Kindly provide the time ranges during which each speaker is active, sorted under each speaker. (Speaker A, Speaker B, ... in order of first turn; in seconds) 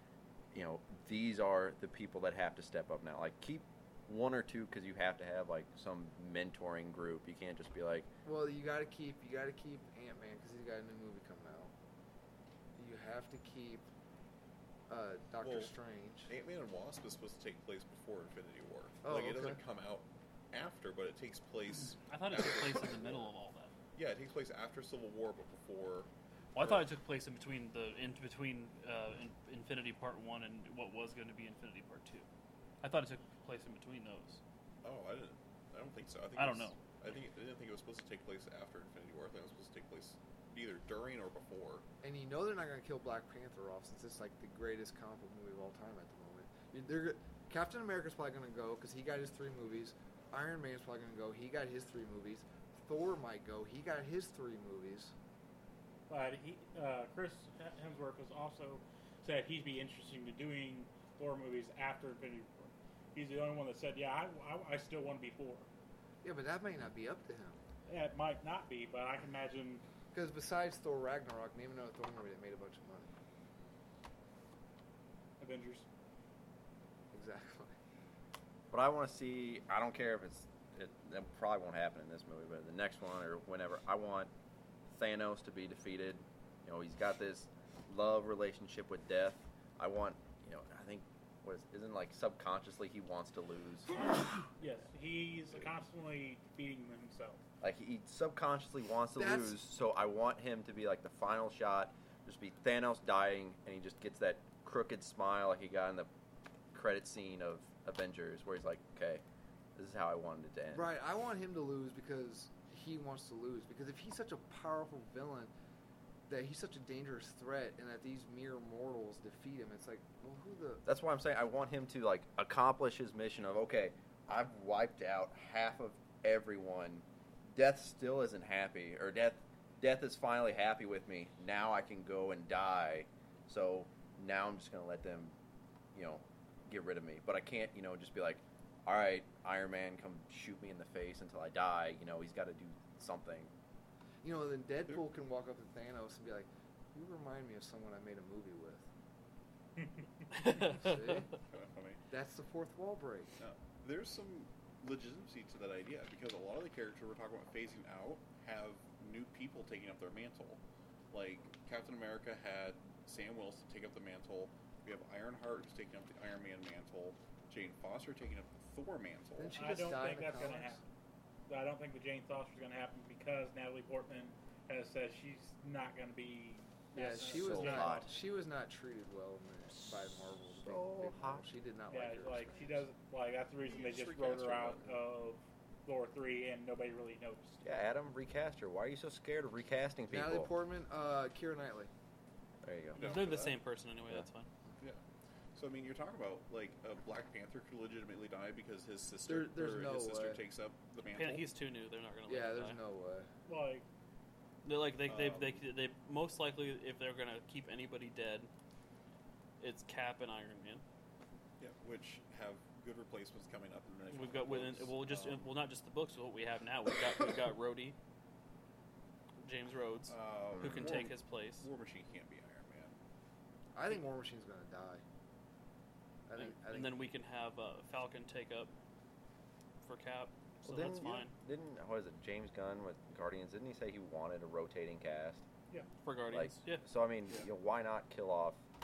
Speaker A: 0.5-8.1, 78.7-84.3, 84.9-93.9, 97.6-106.1, 106.7-109.2, 109.8-110.9, 120.8-135.3, 135.9-143.5, 177.3-178.1, 180.5-181.5, 187.6-190.5, 192.6-193.0, 220.6-220.9, 230.6-235.4, 236.3-238.6
Speaker B: 8.2-11.7, 12.8-13.8, 14.9-16.3, 19.0-19.6, 42.0-55.1, 66.2-67.6, 70.1-73.1, 77.1-77.7, 99.2-99.5, 110.7-115.5, 116.3-120.8, 144.2-148.8, 150.4-151.3, 152.1-153.3, 169.4-170.8, 176.9-182.8, 190.1-191.9, 199.3-200.4, 202.2-203.3, 223.7-225.0, 226.3-227.0
Speaker C: 15.4-15.7, 16.3-23.3, 23.9-26.8, 34.8-41.8, 151.3-152.0, 153.4-160.6, 161.1-169.8, 183.6-185.0, 193.0-193.6, 195.5-201.4, 205.0-205.6, 211.6-215.5, 220.1-223.0
Speaker D: 22.1-23.7, 26.5-32.2, 32.8-34.4, 36.4-36.8, 150.4-150.9, 192.9-194.5, 201.1-202.8, 204.6-208.5, 209.6-210.8, 214.1-217.9, 219.4-221.7, 226.4-228.7, 229.8-231.3, 236.0-236.8
Speaker E: 56.1-65.7, 67.9-69.8, 75.4-75.8, 94.6-97.4, 169.5-170.8, 171.5-178.1, 181.9-187.6, 203.5-203.8